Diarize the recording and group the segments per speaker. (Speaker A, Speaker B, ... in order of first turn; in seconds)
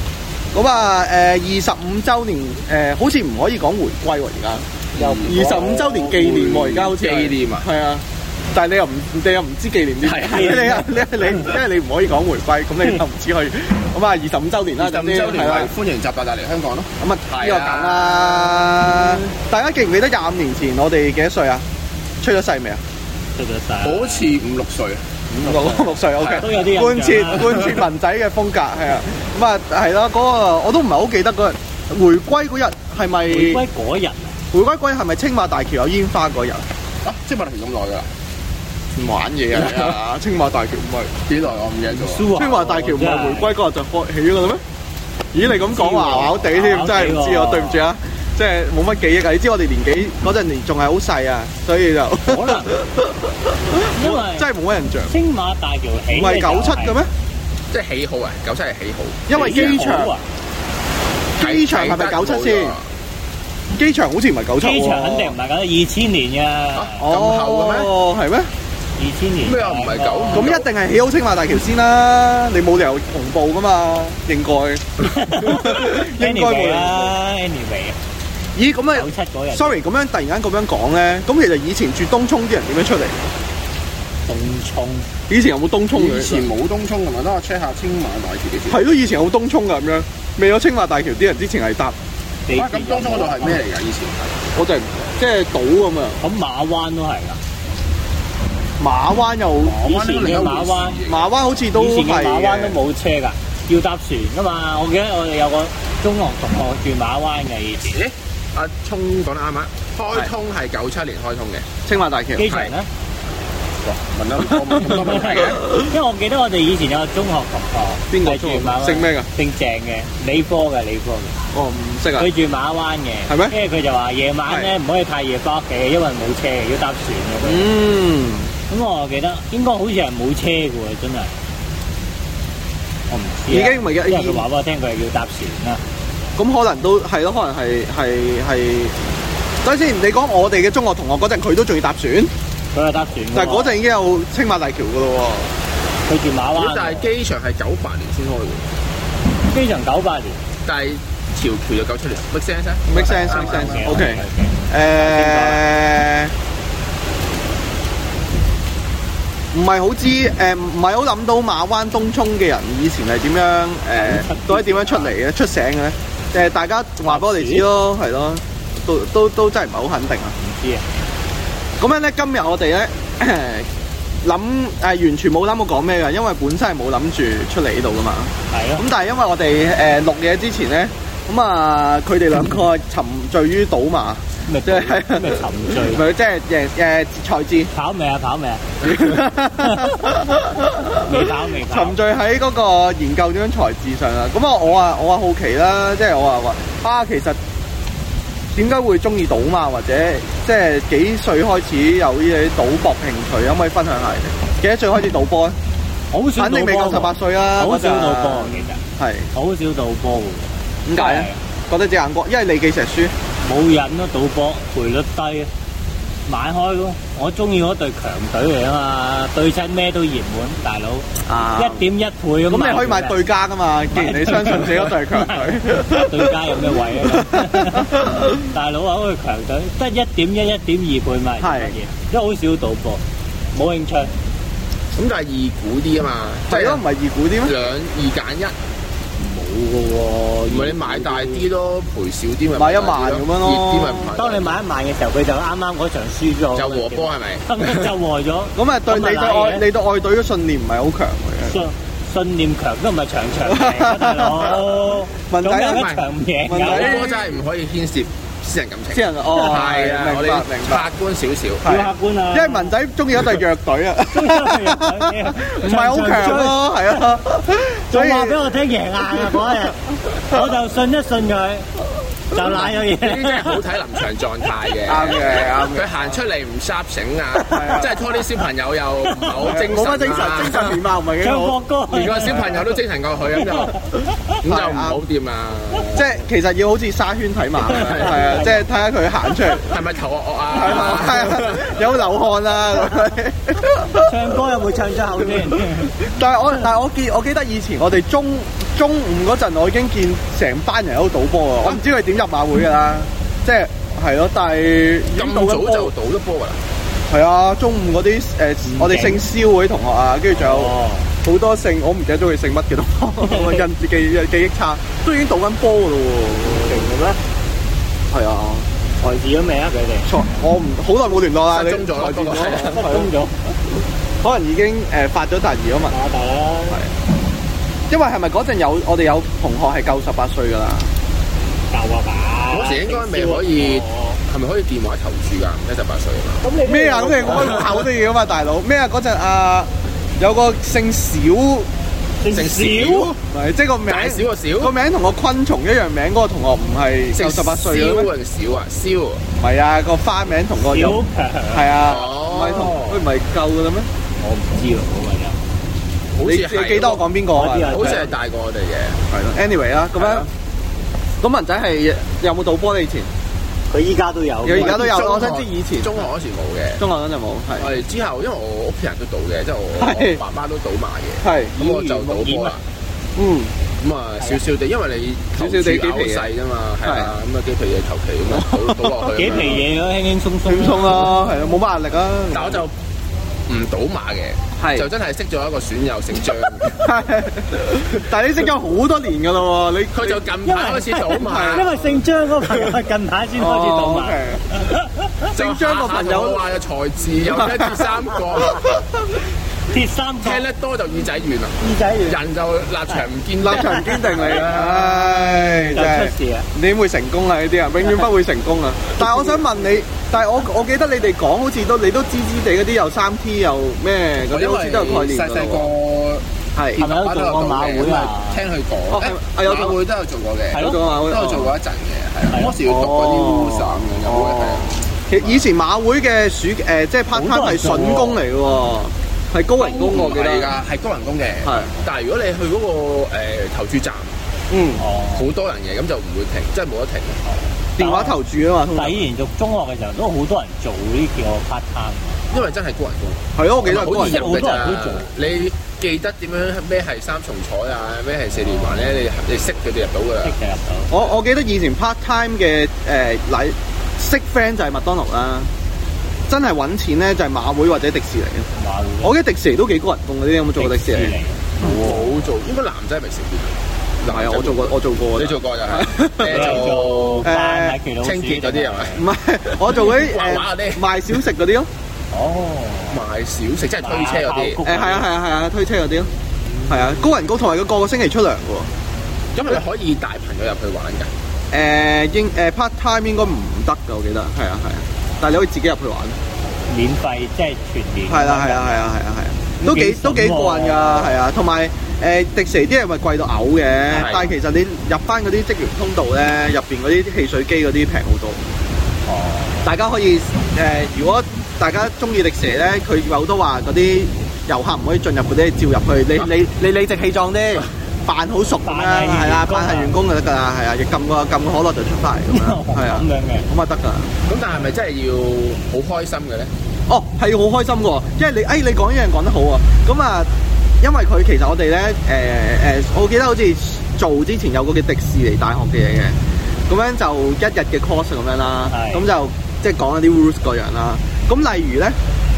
Speaker A: 0.5-4.7, 5.3-15.7, 17.0-21.6, 22.2-22.8, 25.3-33.6, 34.5-36.6, 39.0-41.2, 42.3-44.6, 45.3-55.1, 56.1-57.1, 59.3-60.1, 61.4-62.8, 63.8-65.4, 67.0-68.5, 70.3-77.1, 78.6-83.2, 85.3-86.5, 88.7-92.0, 94.5-96.2, 98.8-99.8, 101.1-102.8, 111.9-112.5, 118.1-119.3, 121.5-122.3, 123.3-123.6, 124.5-124.7, 127.4-128.5, 133.5-134.4, 136.4-139.0, 139.6-142.3, 143.3-145.5, 152.9-156.3, 159.5-170.3, 171.8-173.7, 174.2-187.7, 188.8-197.4, 198.5-205.6, 206.4-209.3, 210.9-213.1, 221.3-221.8, 222.5-228.4, 231.4-231.8, 236.5-237.6, 242.5-244.1, 248.6-251.6, 253.5-254.6, 255.3-255.9, 256.5-257.4, 258.9-260.9, 261.6-268.4, 269.1-269.5, 270.2-270.5, 274.9-276.2, 277.5-278.0, 279.4-281.6, 284.4-285.0, 285.9-289.8, 290.5-294.1, 295.2-305.9, 307.1-310.7, 311.2-316.9, 318.1-318.7, 320.1-323.1, 324.2-325.9, 327.9-330.9, 336.6-341.7, 343.2-348.1, 349.4-353.9, 356.2-358.1, 359.1-360.3, 361.2-363.1, 364.4-366.1, 366.8-367.7, 369.8-370.2, 371.2-371.6, 373.2-373.5, 375.4-376.3, 376.8-377.1, 378.3-379.5, 380.4-382.6, 384.6-384.9, 386.8-390.2, 391.2-391.8, 393.4-394.4, 395.3-396.4, 397.3-399.0, 403.4-415.7, 418.9-419.8, 420.6-421.5, 422.6-430.6, 431.4-431.7, 434.5-434.8, 437.8-439.1, 443.4-444.3, 450.9-455.5, 456.3-458.5, 459.0-462.2, 464.1-466.7, 467.2-467.8, 468.9-471.7, 474.6-476.1, 476.7-478.7, 481.5-486.2, 488.1-498.4, 499.6-514.1, 516.9-520.3, 520.8-526.1, 526.7-532.0
Speaker B: 5.0-7.7, 10.0-10.8, 14.8-18.8, 23.8-25.0, 26.2-26.5, 37.0-38.1, 39.5-40.0, 41.2-42.3, 57.7-59.8, 61.4-62.8, 66.8-67.9, 69.4-70.7, 85.9-88.8, 92.6-94.3, 99.8-101.2, 107.9-111.7, 112.5-112.7, 113.8-115.8, 146.6-148.7, 150.7-154.0, 234.9-236.8, 237.4-238.5, 240.5-244.5, 246.6-247.9, 255.6-256.0, 256.6-261.7, 272.6-280.8, 281.9-283.8, 284.4-286.2, 287.6-288.5, 289.6-291.8, 305.2-306.6, 321.5-322.9, 332.5-336.4, 337.3-337.6, 342.3-343.2, 343.9-344.7, 347.1-349.2, 351.9-353.1, 356.1-357.1, 357.7-359.0, 360.0-360.3, 364.5-366.8, 367.6-372.6, 373.8-379.6, 382.3-382.7, 383.5-386.9, 389.9-391.7, 395.3-398.7, 400.2-405.5, 414.2-425.4, 429.7-434.2, 435.1-437.2, 442.3-450.4, 461.6-467.3, 468.0-469.1, 469.6-471.2, 472.9-474.6, 479.4-481.1, 493.9-494.3, 514.3-516.5
Speaker C: 5.0-6.1, 10.3-10.8, 23.4-24.3, 25.4-27.8, 33.3-34.4, 41.9-43.6, 45.5-47.9, 52.2-52.7, 53.9-54.5, 55.1-57.0, 59.3-60.2, 64.6-67.0, 69.0-70.5, 75.0-78.0, 78.9-79.8, 84.3-85.1, 92.5-93.6, 96.2-97.4, 99.7-101.0, 101.7-108.0, 112.4-112.9, 114.7-121.4, 122.1-127.7, 128.7-131.3, 133.1-135.8, 142.8-143.8, 146.1-147.1, 149.5-150.4, 153.0-155.6, 163.9-165.1, 167.1-167.7, 170.4-170.8, 178.5-178.8, 184.5-186.0, 187.7-188.9, 189.6-190.0, 190.9-192.0, 206.1-211.4, 213.4-215.5, 216.3-223.2, 223.9-233.0, 233.6-234.1, 239.2-241.5, 244.2-249.7, 251.4-257.0, 261.6-262.8, 264.1-266.6, 267.9-271.7, 272.3-273.6, 277.4-278.0, 279.1-279.6, 281.2-282.7, 283.4-284.0, 287.8-288.6, 290.6-291.1, 294.0-296.0, 308.7-309.2, 310.3-311.1, 313.2-313.6, 316.4-317.2, 319.0-320.1, 322.7-323.6, 325.9-326.8, 331.7-334.2, 336.4-337.9, 342.2-343.1, 350.6-351.7, 354.2-355.4, 357.3-358.2, 363.7-365.0, 371.6-372.6, 379.1-381.2, 390.4-395.2, 399.7-400.4, 401.6-402.2, 403.6-404.3, 405.3-406.5, 409.0-409.4, 416.8-418.4, 420.5-420.8, 422.3-422.6, 427.1-428.2, 429.6-429.9, 434.8-435.3, 437.8-438.2, 438.8-442.2, 443.7-445.1, 448.4-449.0, 450.2-451.0, 458.6-459.2, 460.6-462.0, 466.3-469.0, 472.1-473.0, 473.8-475.1, 476.5-477.1, 486.7-488.9, 489.6-491.2, 493.9-494.3, 499.1-499.7, 508.6-510.0, 512.3-513.5, 528.7-529.0